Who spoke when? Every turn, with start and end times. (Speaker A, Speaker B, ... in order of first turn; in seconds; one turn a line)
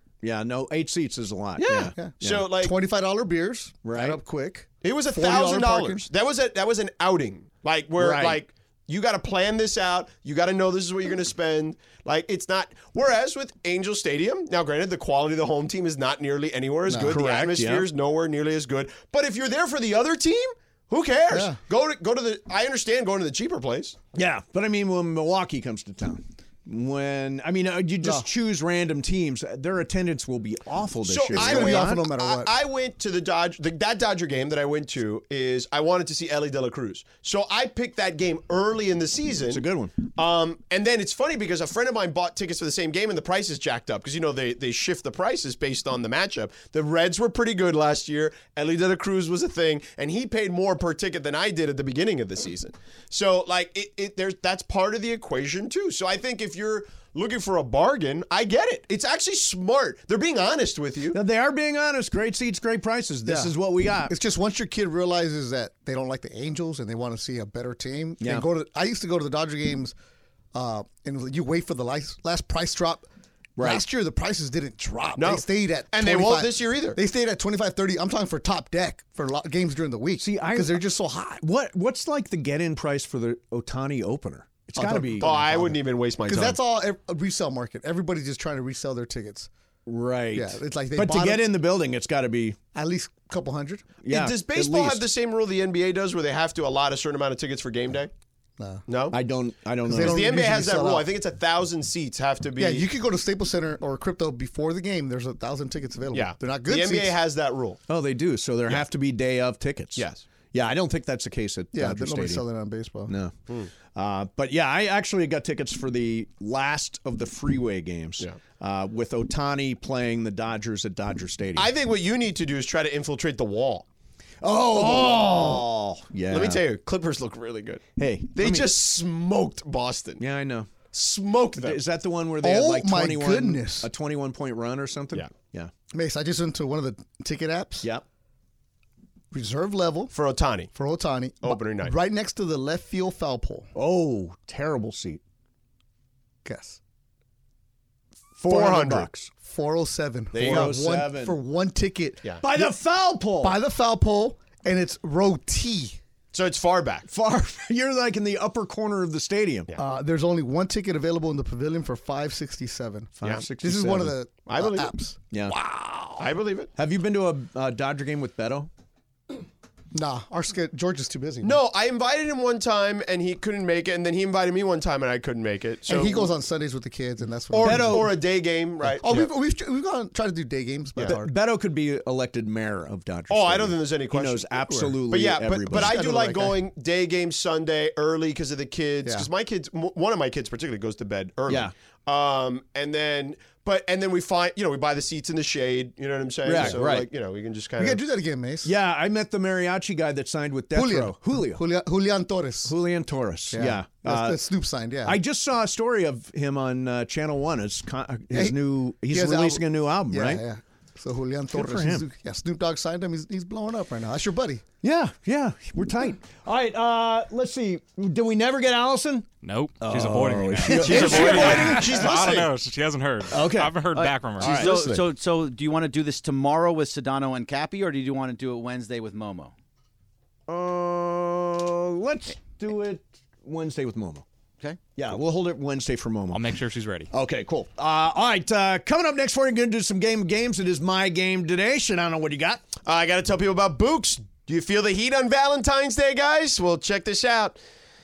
Speaker A: 0.2-2.5
Speaker B: 1.6-2.7
Speaker C: 1.9-6.1
Speaker A: 3.8-4.2
Speaker B: 4.8-23.9
Speaker A: 8.0-8.4
Speaker C: 16.9-17.3
Speaker A: 16.9-17.9
Speaker C: 21.3-21.6
Speaker A: 24.1-32.0
Speaker C: 28.0-28.3
Speaker B: 31.0-39.6
Speaker C: 31.3-32.5
Speaker A: 39.5-39.9
Speaker B: 40.1-61.2
Speaker A: 61.1-64.1
Speaker C: 63.2-63.5
Speaker C: 64.1-69.9
Speaker C: 70.5-73.1
Speaker A: 73.6-73.8
Speaker C: 73.6-81.4
Speaker B: 75.2-77.0
Speaker A: 80.2-85.4
Speaker C: 84.7-89.5
Speaker B: 85.2-86.6
Speaker A: 89.8-92.6
Speaker C: 90.3-91.6
Speaker C: 92.7-94.0
Speaker A: 94.0-95.0
Speaker B: 94.1-98.1
Speaker C: 98.6-98.8
Speaker B: 98.9-99.2
Speaker A: 99.1-100.5
Speaker C: 99.8-101.1
Speaker B: 100.0-102.9
Speaker C: 102.6-107.2
Speaker B: 106.1-107.8
Speaker A: 107.9-112.4
Speaker B: 110.0-110.2
Speaker C: 111.7-113.1
Speaker A: 113.1-113.3
Speaker A: 113.9-121.7
Speaker B: 121.5-123.8
Speaker A: 124.4-126.6
Speaker C: 124.8-125.6
Speaker B: 124.8-125.5
Speaker B: 126.3-130.2
Speaker A: 128.0-128.8
Speaker A: 130.2-130.7
Speaker B: 130.9-131.8
Speaker A: 131.6-135.7
Speaker C: 132.4-133.9
Speaker C: 135.9-137.9
Speaker C: 139.3-140.1
Speaker B: 140.1-140.7
Speaker C: 140.7-143.7
Speaker B: 141.4-141.9
Speaker A: 143.7-145.2
Speaker C: 146.4-146.8
Speaker A: 148.4-149.3
Speaker B: 148.5-149.1
Speaker C: 149.3-152.7
Speaker B: 150.3-150.8
Speaker A: 150.3-151.4
Speaker A: 152.4-153.6
Speaker C: 153.4-156.0
Speaker B: 156.3-157.1
Speaker A: 157.1-159.7
Speaker C: 159.8-166.1
Speaker A: 163.2-164.2
Speaker B: 163.2-163.5
Speaker B: 164.5-164.9
Speaker B: 166.2-166.7
Speaker A: 166.8-168.7
Speaker C: 169.9-171.6
Speaker B: 171.4-176.3
Speaker C: 175.9-178.3
Speaker B: 177.5-179.3
Speaker A: 177.6-178.2
Speaker C: 178.8-181.3
Speaker A: 181.0-186.0
Speaker B: 183.3-198.0
Speaker C: 185.7-186.6
Speaker A: 191.5-191.7
Speaker A: 196.4-197.1
Speaker C: 196.5-196.8
Speaker C: 197.8-198.7
Speaker A: 198.6-201.6
Speaker C: 200.7-202.7
Speaker A: 202.7-204.4
Speaker C: 203.5-205.2
Speaker A: 205.0-210.4
Speaker C: 208.3-214.6
Speaker A: 211.5-212.0
Speaker A: 214.8-219.3
Speaker D: 219.4-224.6
Speaker A: 219.8-222.3
Speaker B: 220.8-222.5
Speaker A: 223.3-224.8
Speaker E: 223.9-229.5
Speaker B: 224.4-225.0
Speaker A: 230.5-234.2
Speaker A: 234.9-236.4
Speaker D: 236.3-237.1
Speaker A: 237.1-242.6
Speaker B: 242.8-247.6